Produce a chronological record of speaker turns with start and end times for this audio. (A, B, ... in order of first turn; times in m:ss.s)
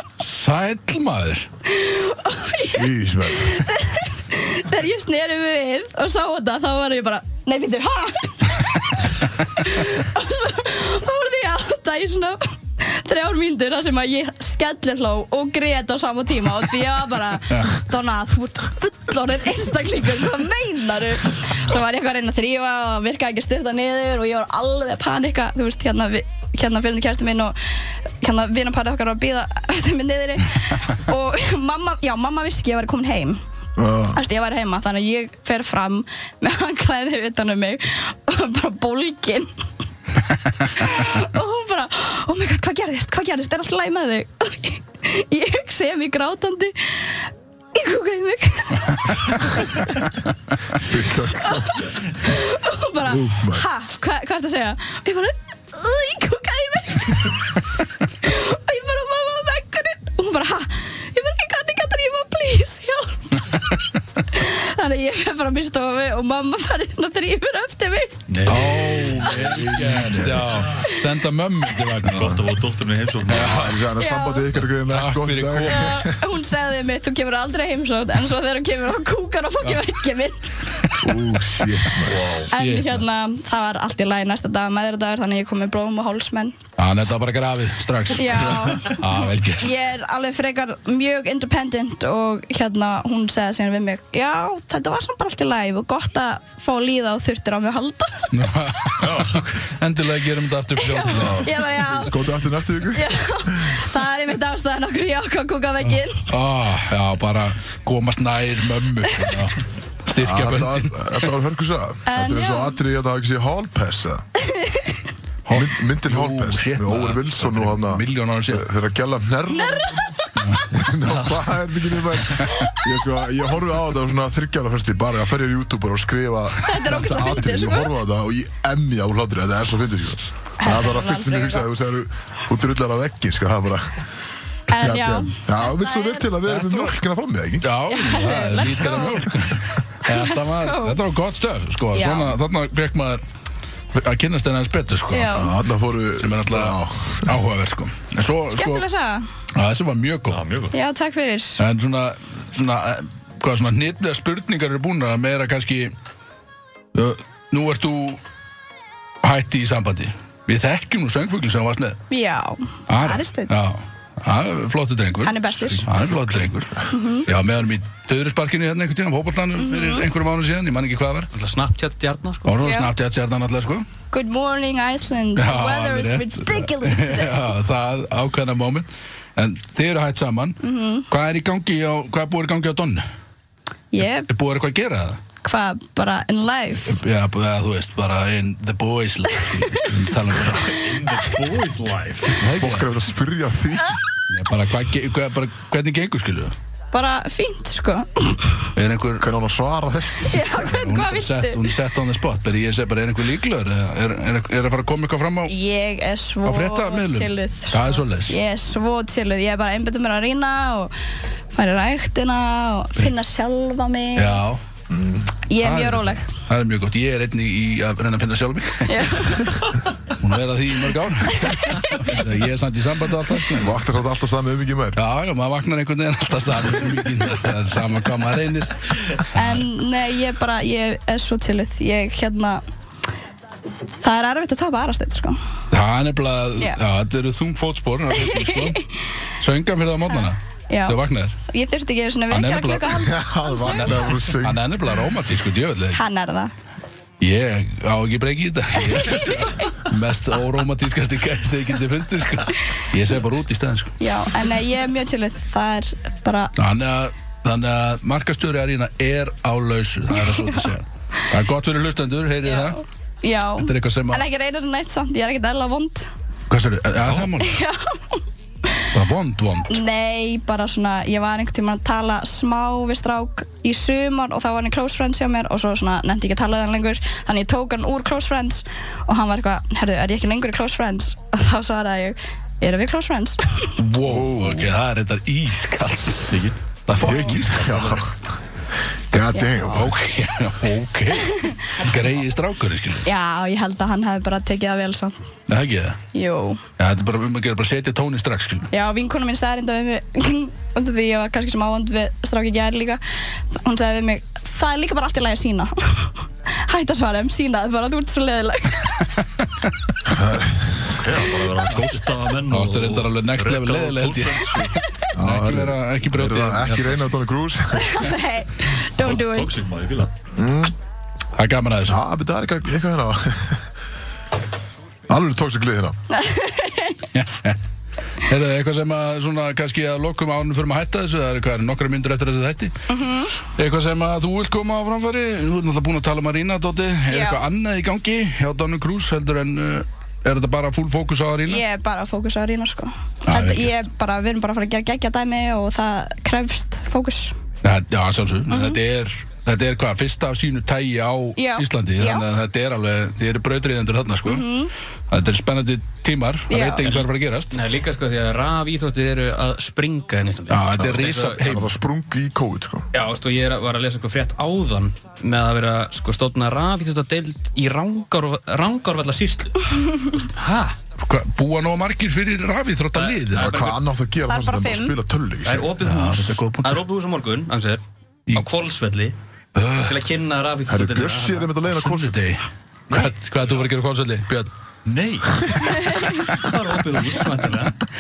0:00.2-0:01.5 A
0:01.7-0:27.6 B
0:02.6-0:03.7 C
0:28.2-0:33.4 B
0:33.8-0:34.2 C
0:34.2-0:39.5 B
0:40.7-0:49.8 B
0:50.7-0:51.9 C
0:51.4-1:08.2 B
0:53.0-0:53.7 C
1:08.3-1:09.4 D
1:08.5-1:12.4 A
1:09.2-1:10.7 C
1:12.0-1:13.7 D
1:13.3-1:13.8 A
1:13.4-1:16.2 C
1:14.0-1:14.5 B
1:14.9-1:16.1 A
1:15.7-1:20.4 B
1:21.0-1:22.4 C
1:22.0-1:22.5 D
1:22.5-1:26.6 B
1:22.5-1:23.0 A
1:26.8-1:29.7 A
1:28.1-1:38.3 B
1:38.3-1:41.5 A
1:39.0-1:39.6 D
1:40.8-1:42.3 B
1:41.1-1:43.8 C
1:42.9-1:46.3 B
1:45.8-1:51.3 A
1:50.2-1:54.2 C
1:52.1-1:52.8 B
1:54.4-1:55.0 B
1:55.5-1:58.7 A
1:55.5-2:00.2 C
1:59.5-2:00.4 B
2:00.4-2:00.6 A
2:00.7-2:14.0 C
2:06.6-2:07.9 B
2:10.6-2:11.7 B
2:14.7-2:16.3 B
2:14.7-2:17.6 C
2:16.4-2:17.0 A
2:17.6-2:23.2 A
2:17.9-2:19.5 B
2:20.0-2:21.0 B
2:21.9-2:22.4 B
2:23.9-2:25.5 A
2:25.1-2:25.5 B
2:25.3-2:27.4 C
2:26.2-2:28.8 A
2:28.5-2:29.3 B
2:29.6-2:30.4 A
2:30.3-2:30.8 D
2:30.7-2:31.6 B
2:31.6-2:35.9 A
2:37.0-2:38.2 A
2:39.2-2:42.0 A
2:42.1-2:43.5 B
2:42.9-2:51.3 A
2:45.2-2:45.9 B
2:46.9-2:47.3 B
2:49.6-2:50.1 B
2:51.3-2:52.5 E
2:52.4-2:53.9 A
2:52.6-2:52.9 B
2:54.1-2:57.5 B
2:55.4-3:03.0 A
3:00.6-3:01.1 B
3:03.9-3:04.3 B
3:04.3-3:05.2 A
3:05.4-3:07.0 B
3:06.9-3:10.9 A
3:10.4-3:12.4 D
3:12.4-3:12.9 A
3:12.5-3:14.0 C
3:14.3-3:16.6 A
3:16.9-3:18.7 B
3:18.8-3:19.3 A
3:19.2-3:20.6 C
3:20.2-3:21.7 B
3:20.6-3:25.5 A
3:25.5-3:30.9 B
3:26.4-3:28.4 A
3:31.5-3:34.4 B
3:34.2-3:34.6 A
3:34.9-3:35.3 C
3:35.5-3:36.3 B
3:35.6-3:39.2 A
3:38.9-3:39.8 B
3:40.2-3:43.8 A
3:41.4-3:42.2 B
3:43.5-3:45.0 C
3:45.0-3:49.7 A
3:49.3-3:52.6 B
3:54.0-3:55.4 B
3:55.7-3:58.8 A
3:58.2-3:58.8 B
3:59.4-4:01.4 A
4:00.1-4:04.1 B
4:02.3-4:03.1 A
4:02.9-4:04.6 C
4:03.6-4:06.0 A
4:06.0-4:06.5 B
4:07.2-4:14.0 A
4:08.9-4:09.7 B
4:14.0-4:16.5 B
4:16.6-4:22.8 A
4:20.2-4:20.7 B
4:22.4-4:26.1 B
4:23.6-4:24.2 A
4:26.5-4:27.6 A
4:27.0-4:27.3 D
4:27.4-4:28.2 B
4:28.9-4:29.8 A
4:29.7-4:43.8 B
4:43.8-4:48.1 A
4:44.0-4:44.7 C
4:46.3-4:46.6 D
4:47.0-4:48.2 C
4:49.1-4:49.9 C
4:49.3-4:49.9 B
4:49.7-4:53.1 A
4:51.2-4:51.5 B
4:53.0-4:55.2 B
4:55.5-4:56.0 A
4:56.1-4:56.6 B
4:56.8-4:58.7 A
4:58.7-5:09.1 B
5:10.1-5:11.0 C
5:10.9-5:14.8 D
5:12.5-5:14.6 A
5:15.1-5:18.2 C
5:15.2-5:17.1 A
5:17.8-5:19.6 B
5:19.0-5:20.1 D
5:20.4-5:20.7 C
5:21.4-5:22.0 A
5:21.9-5:23.7 C
5:25.1-5:26.0 C
5:26.1-5:27.0 B
5:27.1-5:27.6 A
5:28.2-5:32.8 A
5:32.9-5:33.4 B
5:33.5-5:41.6 A
5:37.1-5:37.5 B
5:41.5-5:47.4 B
5:43.2-5:43.8 A
5:47.6-5:54.5 A
5:48.5-5:48.8 B
5:51.4-5:52.3 B
5:54.2-5:54.7 B
5:55.1-5:57.6 A
5:56.5-5:56.8 B
5:56.8-6:01.4 E
6:00.5-6:01.7 A
6:01.4-6:02.9 C
6:02.9-6:10.8 E
6:11.0-6:13.6 A
6:13.0-6:13.8 E
6:13.3-6:15.7 C
6:14.3-6:15.0 B
6:15.4-6:17.8 E
6:15.8-6:16.8 A
6:18.3-6:19.2 E
6:19.6-6:20.0 A
6:19.8-6:21.5 E
6:20.7-6:22.2 C
6:21.6-6:24.5 A
6:24.8-6:25.8 D
6:25.8-6:26.1 B
6:26.3-6:27.8 E